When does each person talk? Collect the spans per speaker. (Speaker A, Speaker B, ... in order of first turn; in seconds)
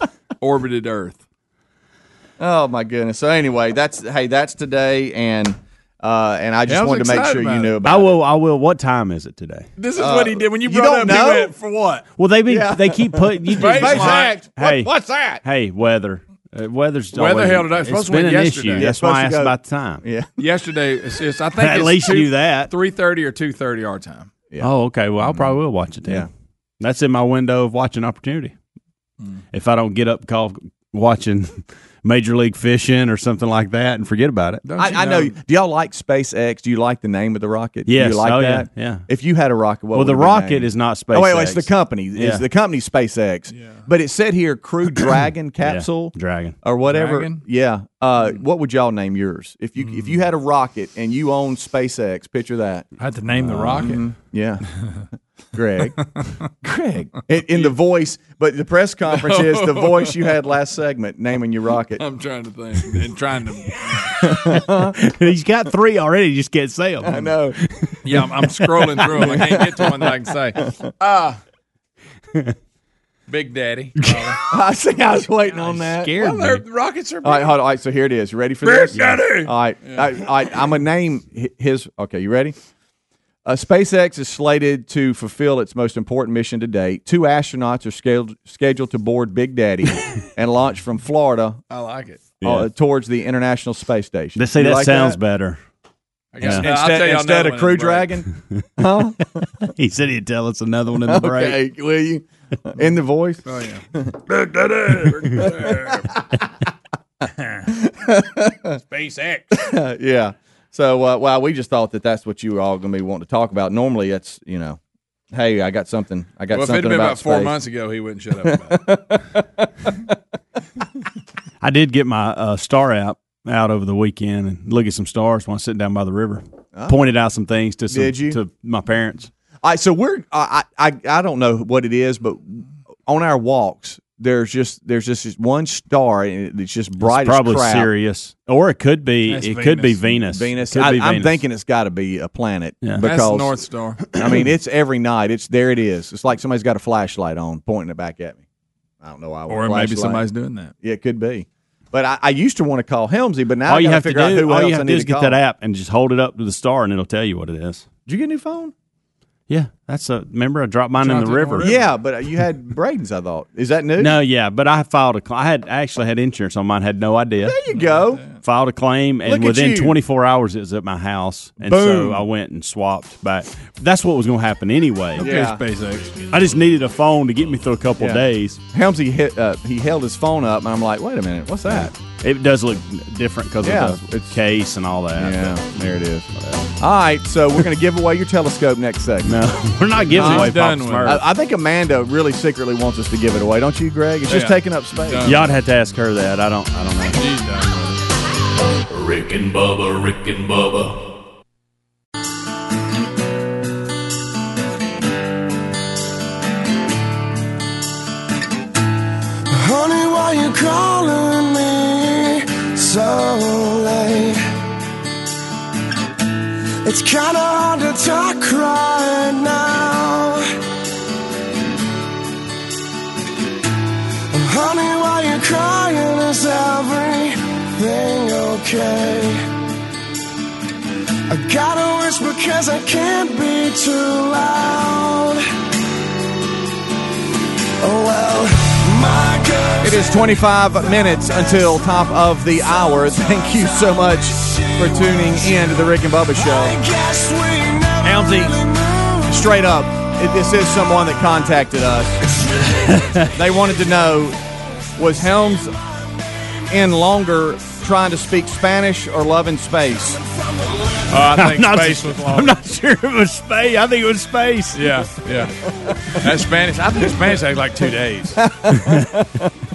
Speaker A: 0.4-1.2, 6.7-7.8, 9.8-12.1, 13.5-14.4, 17.1-18.9, 20.4-24.3, 34.6-35.4, 43.5-43.9, 46.9-47.4, 49.8-50.1, 53.0-54.0, 59.1-60.4, 62.0-64.3, 68.0-71.4, 73.3-74.4, 75.6-77.6, 78.6-80.2, 91.7-92.2, 96.3-98.1, 103.5-103.8, 104.8-106.1, 108.9-109.5, 116.5-118.9, 139.3-140.2, 143.0-144.1, 149.5-150.7, 161.0-161.9, 167.7-168.4, 175.2-176.6, 190.1-191.2, 194.3-195.5, 197.1-198.0, 261.1-262.6, 264.7-265.5, 266.2-268.4
Speaker B: 2.4-8.2, 10.0-11.5, 12.5-15.4, 18.8-20.3, 25.2-25.5, 34.8-52.9, 53.8-54.6, 55.5-56.0, 56.6-62.0, 64.2-64.9, 67.0-67.6, 69.1-69.8, 74.5-76.1, 77.2-82.5, 83.5-91.6, 92.4-95.2, 96.5-99.5, 101.1-104.2, 104.9-105.9, 107.7-108.8, 109.5-114.8, 115.3-117.5, 118.7-119.2, 126.8-127.0, 127.9-128.4, 129.6-137.9, 140.3-143.5, 144.1-148.4, 149.0-150.2, 150.8-155.4, 158.1-158.7, 161.6-164.2, 167.4-168.2, 169.2-170.0, 171.6-172.2, 175.2-175.6, 178.0-181.9, 183.6-184.4, 185.2-186.3, 186.8-189.4, 190.1-195.3, 239.8-246.8, 248.0-248.5, 249.3-252.2, 253.3-254.4, 255.0-255.8, 256.7-260.2, 268.4-269.5
Speaker C: 7.8-9.7, 12.2-20.0, 21.6-22.7, 24.6-26.3, 26.8-28.5, 29.5-34.6, 37.9-39.1, 39.9-42.4, 45.6-46.6, 53.3-54.0, 64.9-69.3, 75.9-76.6, 79.0-79.2, 92.4-92.7, 94.4-95.6, 96.4-96.7, 98.5-98.8, 99.6-101.6, 121.6-129.3, 137.0-141.4, 153.7-157.9, 159.5-161.7, 164.0-167.6, 168.4-175.3, 176.3-178.6, 181.7-186.8, 189.2-191.2, 195.2-197.2, 252.9-253.3, 261.1-264.9, 268.7-269.1
Speaker D: 198.9-201.0
Speaker E: 209.5-214.4, 216.8-220.5, 224.3-229.4, 231.3-235.4, 237.8-240.2, 245.0-245.4, 246.4-249.3